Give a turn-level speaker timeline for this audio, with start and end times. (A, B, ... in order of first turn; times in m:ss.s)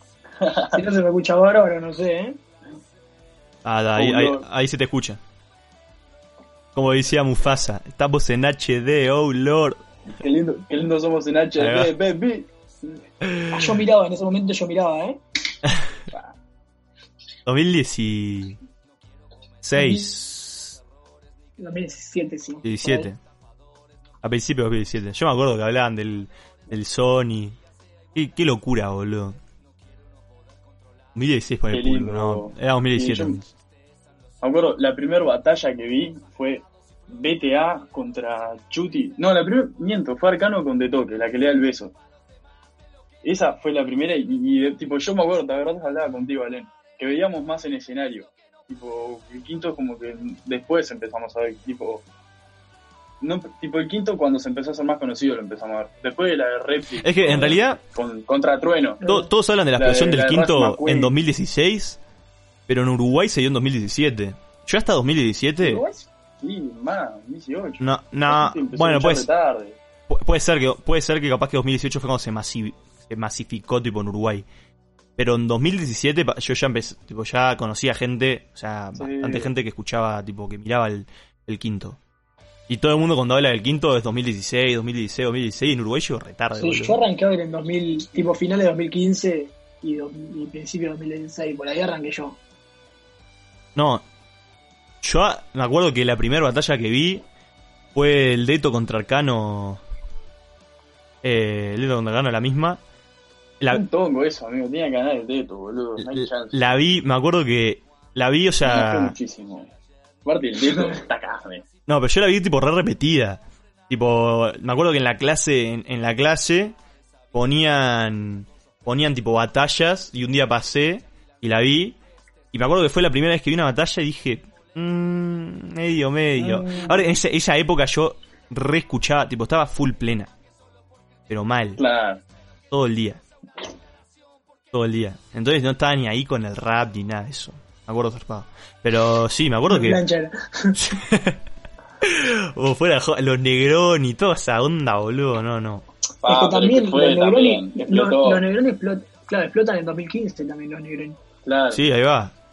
0:00.4-0:00.8 A
0:00.7-0:02.4 B
0:03.6-0:05.2 C
0:04.0-0:04.4 A
0:06.8-0:09.8 C
0:10.1-0:13.0 A
0:11.6-0:11.9 C
0:13.2-0:13.8 C
0:13.5-0:15.2 B
0:17.5-0:18.6 C
0:19.6-0:20.8 C
0:19.8-0:20.1 B
0:21.6-0:23.1 B
0:22.6-0:23.2 C
0:24.2-0:27.6 C
0:28.1-0:29.4 C
0:31.2-0:33.5 C
0:31.7-0:33.4 A
0:34.4-0:41.9 A
0:43.2-0:52.0 A
0:53.2-0:59.1 A
0:57.0-0:57.8 C
0:59.0-1:02.0 C
0:59.8-1:01.1 A
1:02.7-1:05.8 C
1:05.6-1:09.8 A
1:07.8-1:09.3 C
1:10.1-1:14.5 C
1:15.2-1:22.0 C
1:19.0-1:19.5 A
1:22.7-1:27.0 C
1:26.6-1:32.4 B
1:33.8-1:34.0 C
1:35.0-1:37.2 C
1:38.0-1:39.8 C
1:41.2-1:42.8 C
1:43.7-1:46.7 A
1:46.0-1:49.2 C
1:48.6-1:49.7 A
1:50.2-1:51.7 A
1:51.9-1:56.8 C
1:57.3-2:02.0 C
2:02.5-2:10.3 C
2:06.4-2:07.0 A
2:11.3-2:11.8 C
2:11.8-2:12.2 A
2:12.7-2:13.2 C
2:14.7-2:20.0 C
2:19.7-2:20.8 B
2:20.8-2:21.4 C
2:22.0-2:25.8 C
2:26.2-2:28.4 A
2:26.2-2:31.2 B
2:31.5-2:31.8 A
2:31.7-2:32.3 C